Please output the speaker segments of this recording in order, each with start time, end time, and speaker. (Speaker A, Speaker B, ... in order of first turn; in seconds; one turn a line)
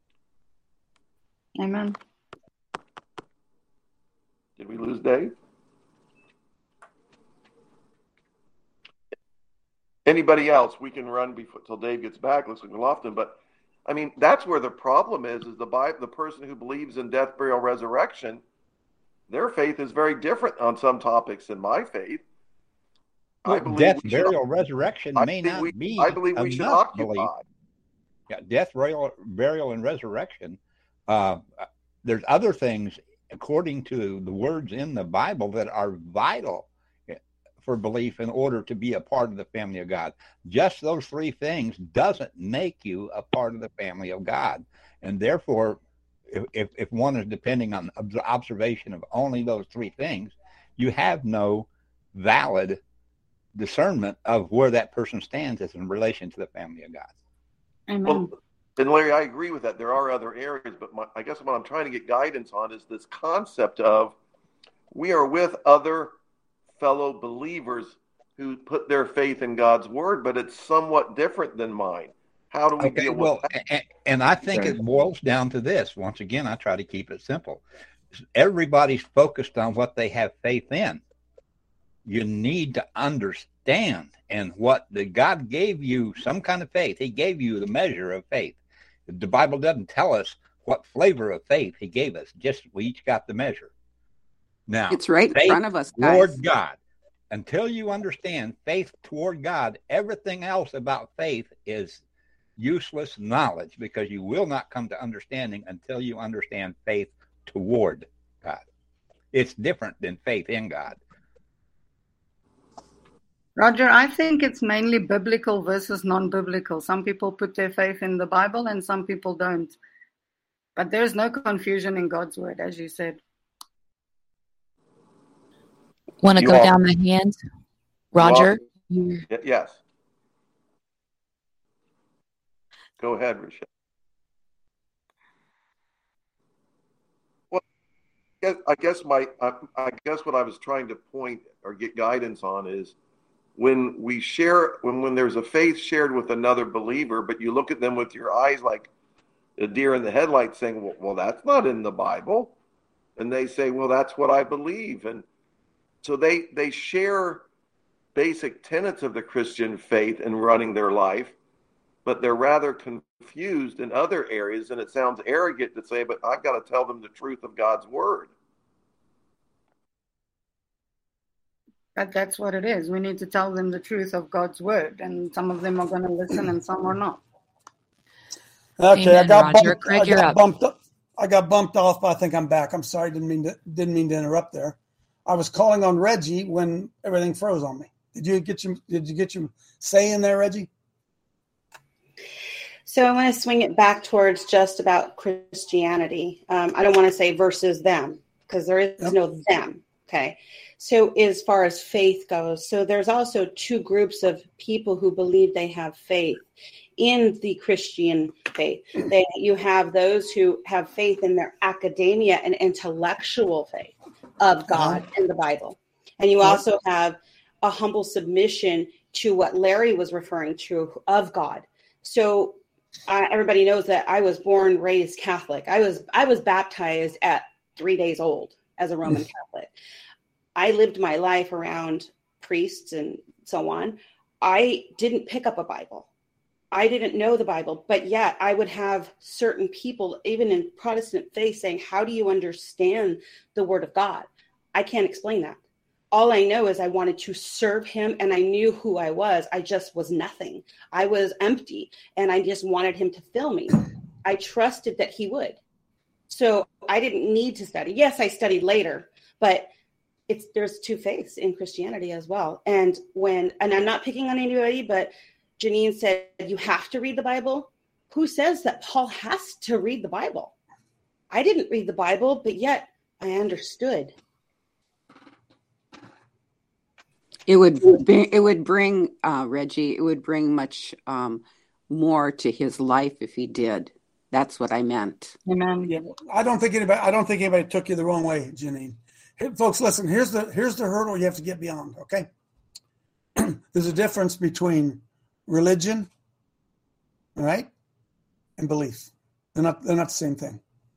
Speaker A: 1.6-1.9
Speaker B: 4.6-5.3
Speaker B: 10.1-18.4
Speaker B: 19.3-22.2
Speaker B: 23.4-24.4
Speaker C: 23.5-27.3
Speaker B: 25.1-27.4
Speaker C: 28.3-45.8
Speaker C: 46.3-52.8
Speaker C: 53.5-57.1
Speaker A: 57.9-58.3
Speaker B: 58.1-64.2
Speaker B: 64.9-66.1
Speaker B: 66.8-73.5
Speaker C: 72.8-77.6
Speaker C: 78.3-81.0
Speaker C: 82.0-93.7
Speaker C: 94.7-96.8
Speaker D: 94.9-96.4
Speaker C: 97.3-102.0
Speaker C: 102.6-108.6
Speaker C: 109.3-111.0
Speaker A: 113.6-119.8
Speaker A: 120.8-123.2
Speaker E: 126.2-127.4
Speaker B: 126.4-126.8
Speaker B: 128.2-128.6
Speaker E: 128.2-128.6
Speaker A: 128.9-129.2
Speaker B: 129.3-129.8
Speaker B: 133.0-133.6
Speaker B: 138.4-142.9
Speaker B: 143.6-148.9
Speaker B: 149.6-152.6
Speaker B: 153.2-155.2
Speaker B: 156.0-157.4
Speaker B: 158.2-161.3
Speaker B: 162.1-168.3
Speaker A: 172.0-177.2
Speaker F: 178.8-190.7
Speaker E: 178.9-180.4
Speaker G: 192.9-206.4
Speaker G: 207.0-222.6
Speaker F: 214.7-215.0
Speaker G: 223.1-229.7
Speaker G: 230.6-236.1
Speaker G: 236.7-245.6
Speaker G: 246.1-255.6
Speaker G: 256.3-259.7
Speaker G: 260.3-270.5
Speaker G: 271.3-274.1
Speaker D: 277.5-285.4
Speaker A: 285.5-285.9
Speaker F: 285.9-292.3
Speaker F: 293.4-296.1
Speaker F: 297.4-297.7
Speaker F: 298.6-300.6